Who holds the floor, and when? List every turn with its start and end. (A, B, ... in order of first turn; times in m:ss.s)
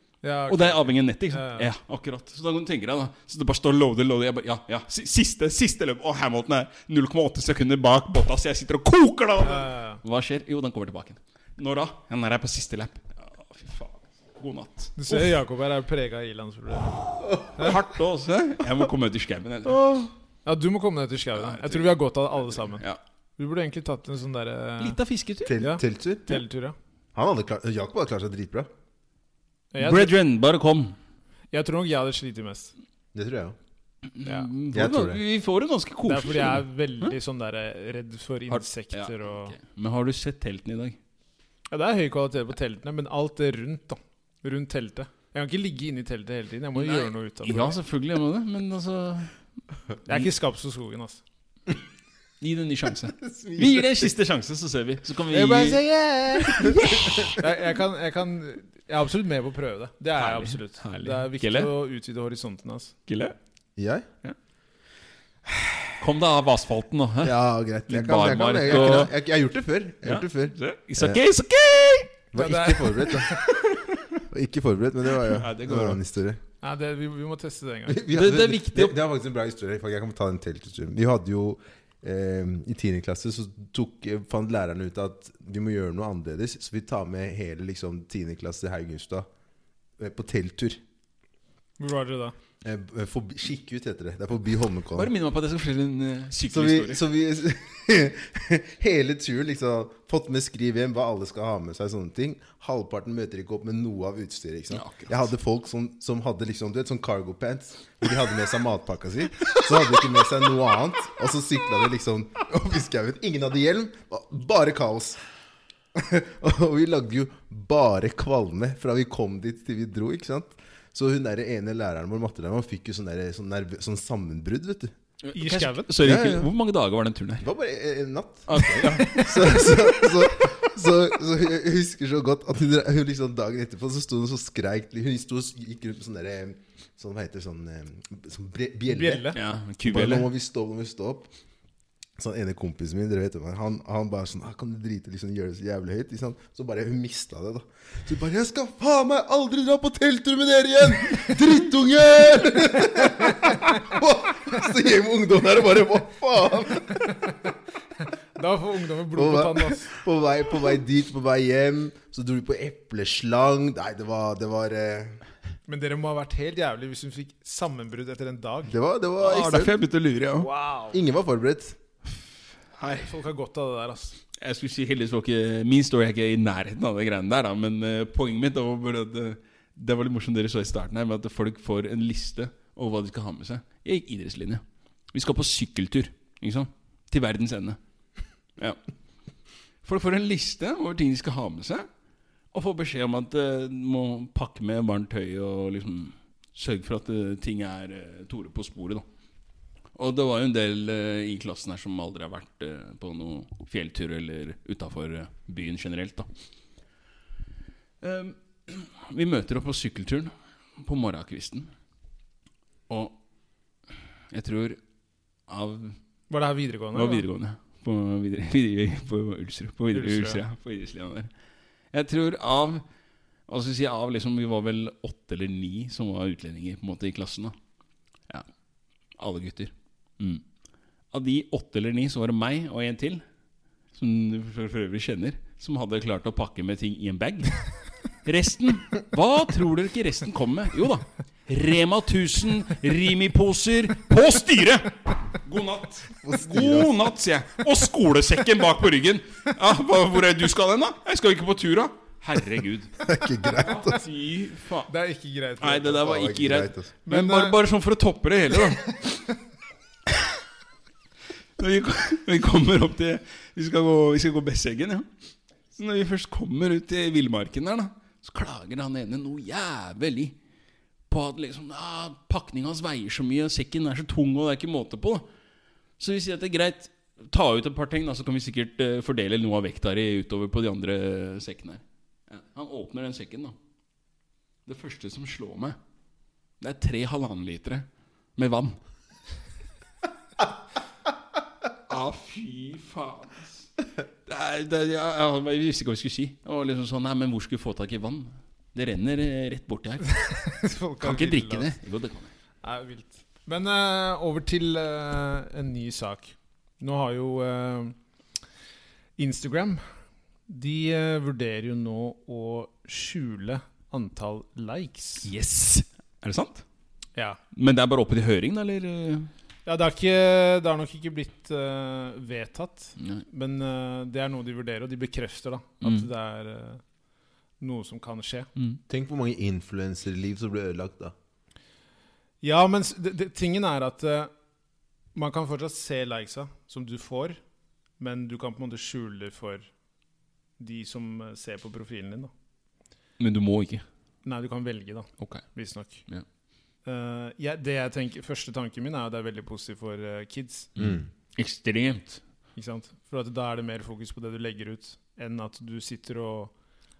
0:00.2-0:01.7 A
0:00.5-0:15.3 B
0:09.4-0:10.0 A
0:15.0-0:17.0 A
0:17.4-0:20.1 B
0:20.4-0:22.8 A
0:21.4-0:22.0 B
0:22.5-0:23.0 B
0:23.4-0:25.0 A
0:24.8-0:25.6 B
0:25.5-0:26.3 C
0:25.6-0:26.8 A
0:27.1-0:28.7 C
0:29.7-0:30.1 A
0:29.8-0:31.0 B
0:31.5-0:32.7 A
0:33.1-0:33.6 C
0:34.1-0:37.1 B
0:34.7-0:35.2 C
0:36.0-0:39.5 A
0:38.5-0:41.0 B
0:41.7-0:47.8 A
0:46.8-0:49.4 B
0:50.1-0:51.2 A
0:52.4-0:57.3 B
0:53.2-0:54.1 C
0:55.3-1:02.9 A
0:56.6-0:57.3 C
1:00.2-1:01.7 B
1:03.1-1:03.3 B
1:03.8-1:04.0 C
1:06.0-1:07.3 B
1:07.2-1:11.2 C
1:07.9-1:09.1 B
1:08.6-1:09.1 A
1:10.0-1:12.1 B
1:12.3-1:13.3 C
1:12.4-1:13.6 A
1:14.3-1:16.4 C
1:15.2-1:16.0 B
1:16.6-1:18.0 A
1:17.9-1:29.2 C
1:18.1-1:19.0 B
1:30.0-1:30.8 C
1:31.8-1:32.4 A
1:32.6-1:35.1 C
1:34.9-1:37.0 B
1:36.5-1:55.2 C
1:44.7-1:45.2 B
1:55.9-2:04.9 C
2:05.2-2:07.4 B
2:05.4-2:05.9 A
2:06.0-2:06.5 C
2:07.4-2:21.3 C
2:08.5-2:10.0 B
2:18.9-2:19.4 A
2:19.3-2:20.3 B
2:22.2-2:37.2 C
2:37.0-2:40.0 A
2:39.1-2:45.2 C
2:45.7-2:48.8 A
2:48.7-2:49.7 C
2:49.2-2:50.5 B
2:50.4-2:51.0 A
2:50.9-2:51.8 C
2:52.8-2:53.1 B
2:53.0-2:54.2 A
2:54.4-3:07.8 B
3:09.8-3:11.9 B
3:12.5-3:19.0 B
3:19.9-3:26.3 B
3:28.0-3:31.7 B
3:32.9-3:33.2 B
3:34.3-3:34.8 B
3:35.5-3:36.0 B
3:36.3-3:37.2 A
3:36.9-3:41.3 B
3:39.9-3:40.4 A
3:41.9-3:42.8 B
3:43.5-3:47.6 B
3:49.2-3:50.4 B
3:51.1-3:53.2 B
3:53.9-3:57.6 B
3:58.2-4:14.9 B
4:06.2-4:06.9 C
4:13.0-4:14.0 C
4:14.9-4:15.9 A
4:15.6-4:19.0 B
4:15.8-4:16.9 C
4:17.0-4:17.6 A
4:21.6-4:25.1 B
4:25.7-4:30.4 B
4:31.1-4:35.3 B
4:36.0-4:43.6 B
4:44.6-4:45.8 B
4:46.6-4:48.8 B
4:51.9-4:53.7 B
4:54.2-5:00.2 B
5:00.1-5:01.7 A
5:01.0-5:02.3 B
5:02.6-5:07.9 A
5:09.2-5:09.8 A
5:10.5-5:15.3 A
5:15.2-5:16.6 B
5:17.5-5:19.3 B
5:19.6-5:26.8 A
5:25.8-5:26.1 B
5:27.6-5:28.5 A
5:28.9-5:31.1 C
5:32.4-5:34.3 A
5:35.1-5:37.4 A
5:38.0-5:39.7 A
5:40.6-5:42.3 A
5:43.2-5:43.8 B
5:44.2-5:46.0 A
5:46.8-5:50.7 A
5:50.8-5:52.2 B
5:52.6-5:56.5 A